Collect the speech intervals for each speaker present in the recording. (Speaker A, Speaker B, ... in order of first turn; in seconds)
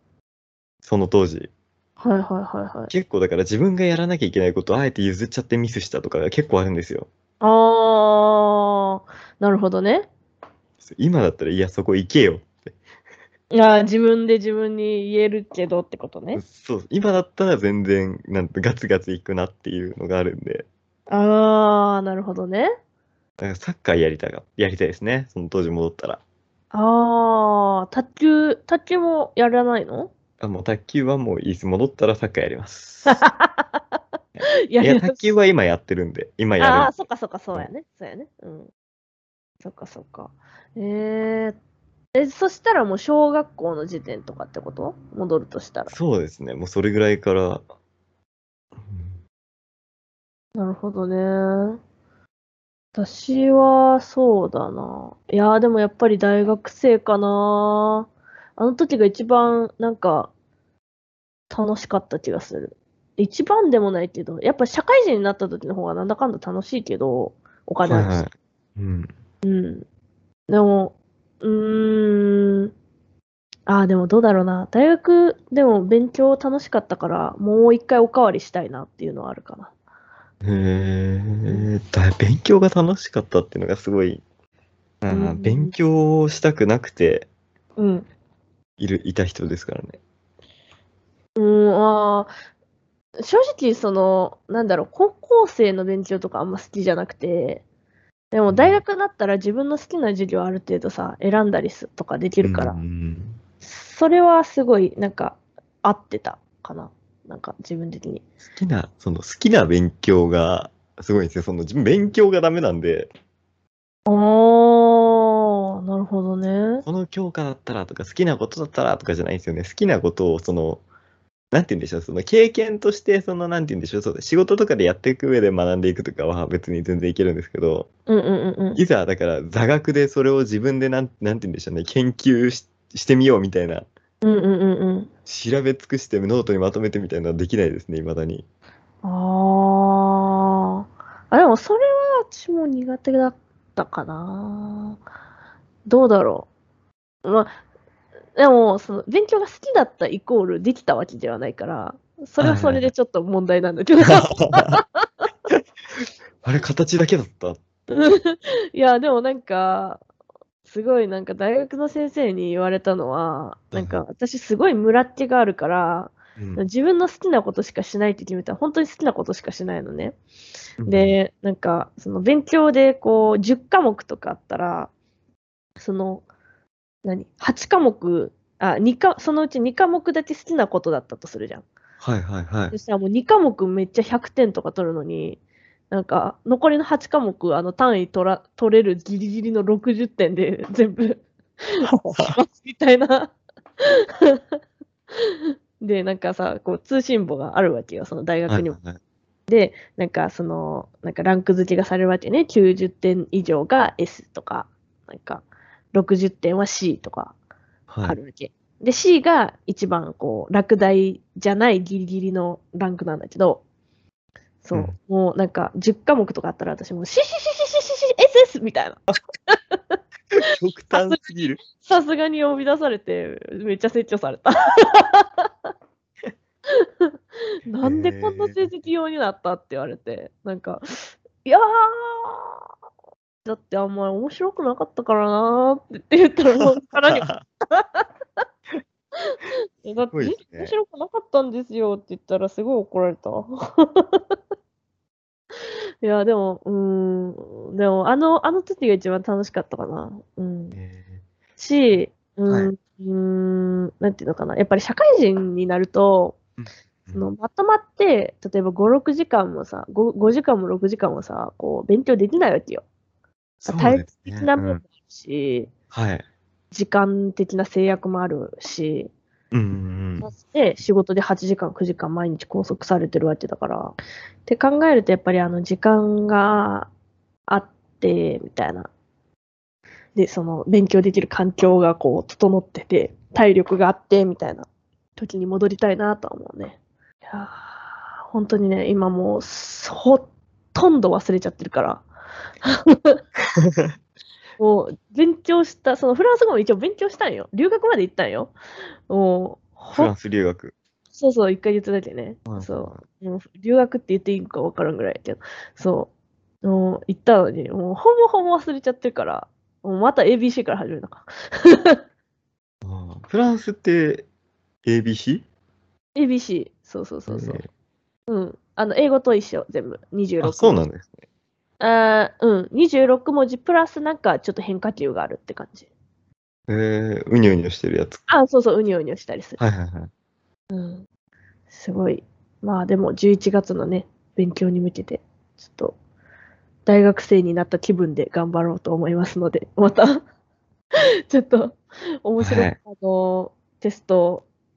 Speaker A: 0.8-1.5, 2.9-7.1, 10.8-12.7, 16.3-20.6, 23.4-26.2, 30.4-33.2, 34.4-37.0, 45.9-47.6, 48.8-49.2, 67.8-69.1, 80.4-84.2, 85.0-87.3, 88.8-90.0, 98.5-98.8, 102.4-103.4, 108.4-113.1, 116.8-120.8, 121.5-127.9, 128.8-133.9, 135.2-138.4, 152.4-152.9, 154.0-154.8, 156.4-157.6, 163.7-164.0, 166.4-166.6, 170.8-171.2, 182.0-182.7, 191.8-192.3, 198.5-199.0, 207.9-208.2, 220.3-221.6, 227.8-228.7, 240.1-240.7, 250.7-251.2, 252.5-252.7, 256.6-257.3, 263.6-264.8, 265.9-266.2, 269.5-270.3, 299.9-300.7, 302.5-303.0, 312.8-314.2, 314.8-315.4, 317.3-317.7, 320.4-321.2, 326.7-328.2, 329.6-330.1, 342.4-342.8
Speaker B: 2.0-2.9, 7.4-10.1, 13.5-16.4, 21.1-22.7, 26.7-30.1, 33.1-34.0, 34.7-35.3, 36.6-38.7, 39.6-41.6, 42.1-45.9, 50.5-51.8, 52.9-60.3, 61.5-68.2, 69.4-69.8, 70.5-72.7, 73.7-79.7, 85.1-85.7, 87.8-88.1, 91.3-92.3, 93.2-97.6, 98.3-102.8, 103.6-108.2, 114.1-116.8, 128.1-128.8, 134.2-135.1, 139.0-145.0, 145.8-146.5, 147.2-147.5, 148.3-155.0, 157.9-160.0, 160.7-170.2, 170.8-174.9, 175.8-176.2, 177.0-181.7, 182.7-185.4, 185.9-193.3, 194.0-194.4, 195.2-198.8, 199.5-207.3, 208.0-213.6, 214.6-220.0, 220.9-225.5, 226.7-227.1, 227.7-232.7, 233.4-238.1, 239.2-244.3, 246.0-250.8, 251.6-256.4, 257.1-262.9, 263.6-265.7, 266.7-269.1, 270.2-276.9, 277.5-278.9, 280.1-292.1, 292.6-293.2, 294.6-298.5, 299.1-300.1, 301.1-306.1, 306.6-312.0, 316.1-317.6, 318.3-320.8, 321.8-325.9, 328.3-329.6, 330.7-331.0, 331.7-335.9, 336.9-340.2, 341.3-344.4